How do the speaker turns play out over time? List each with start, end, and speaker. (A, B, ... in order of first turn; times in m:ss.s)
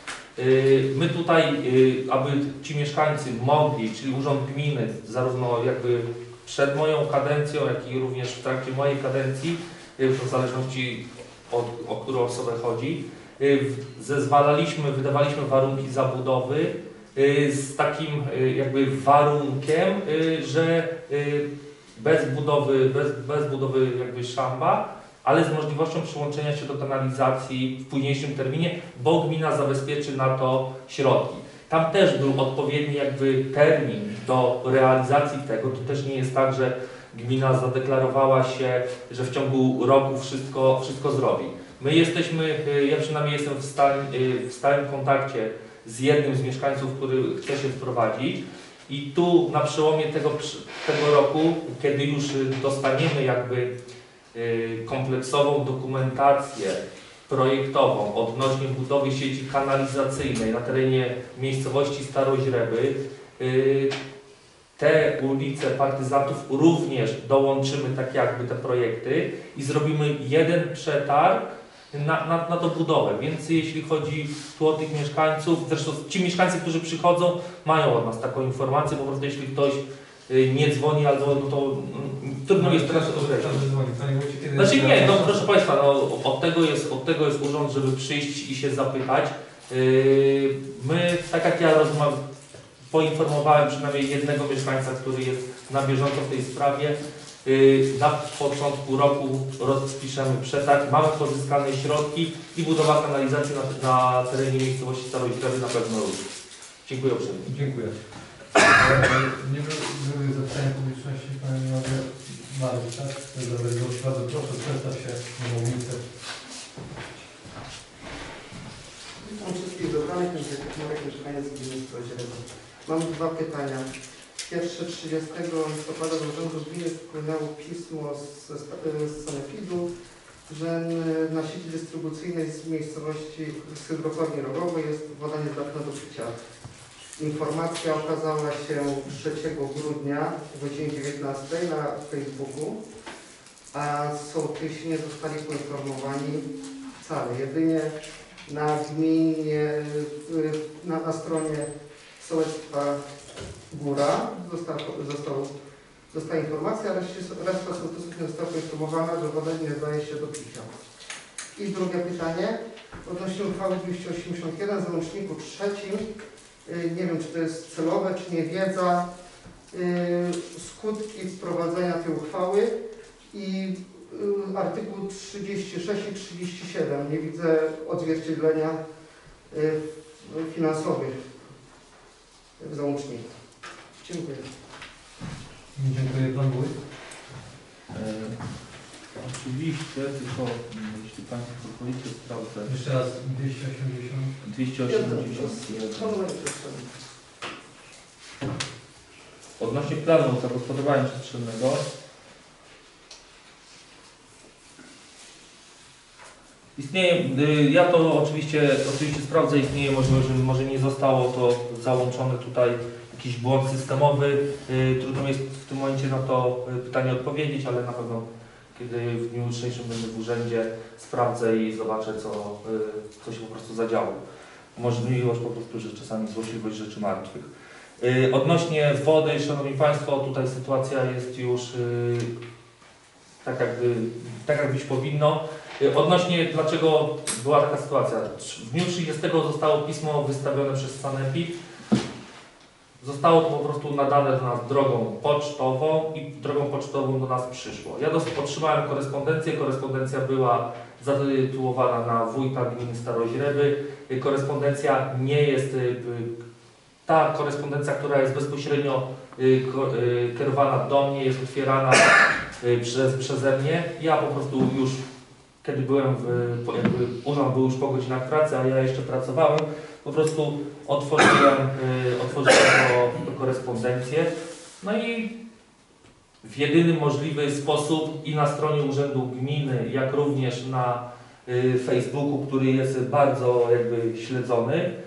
0:00.4-0:53.7 A
0:54.3-1:04.0 A
1:04.8-1:23.6 A
1:22.6-1:25.5 B
1:24.6-1:32.2 A
1:32.9-1:46.3 A
1:46.8-1:47.5 A
1:47.4-1:48.0 B
1:48.7-1:56.0 B
1:59.2-2:03.9 C
2:04.4-2:09.9 C
2:10.5-2:16.3 C
2:17.2-2:22.8 C
2:23.7-2:33.1 C
2:33.7-2:35.5 C
2:36.1-2:40.7 C
2:41.6-2:46.1 C
2:46.6-2:49.1 C
2:49.7-2:52.7 C
2:53.3-2:58.8 C
2:59.5-3:01.3 C
3:02.6-3:03.3 C
3:04.0-3:04.5 C
3:05.8-3:06.8 B
3:07.9-3:08.4 A
3:09.2-3:12.7 A
3:12.7-3:14.3 B
3:14.4-3:16.2 A
3:14.8-3:16.9 C
3:19.6-3:21.8 A
3:26.8-3:44.2 A
3:44.8-3:52.3 A
3:53.4-4:01.5 A
4:03.0-4:16.3 A
4:17.1-4:25.0 A
4:25.6-4:35.3 A
4:36.4-4:44.9 A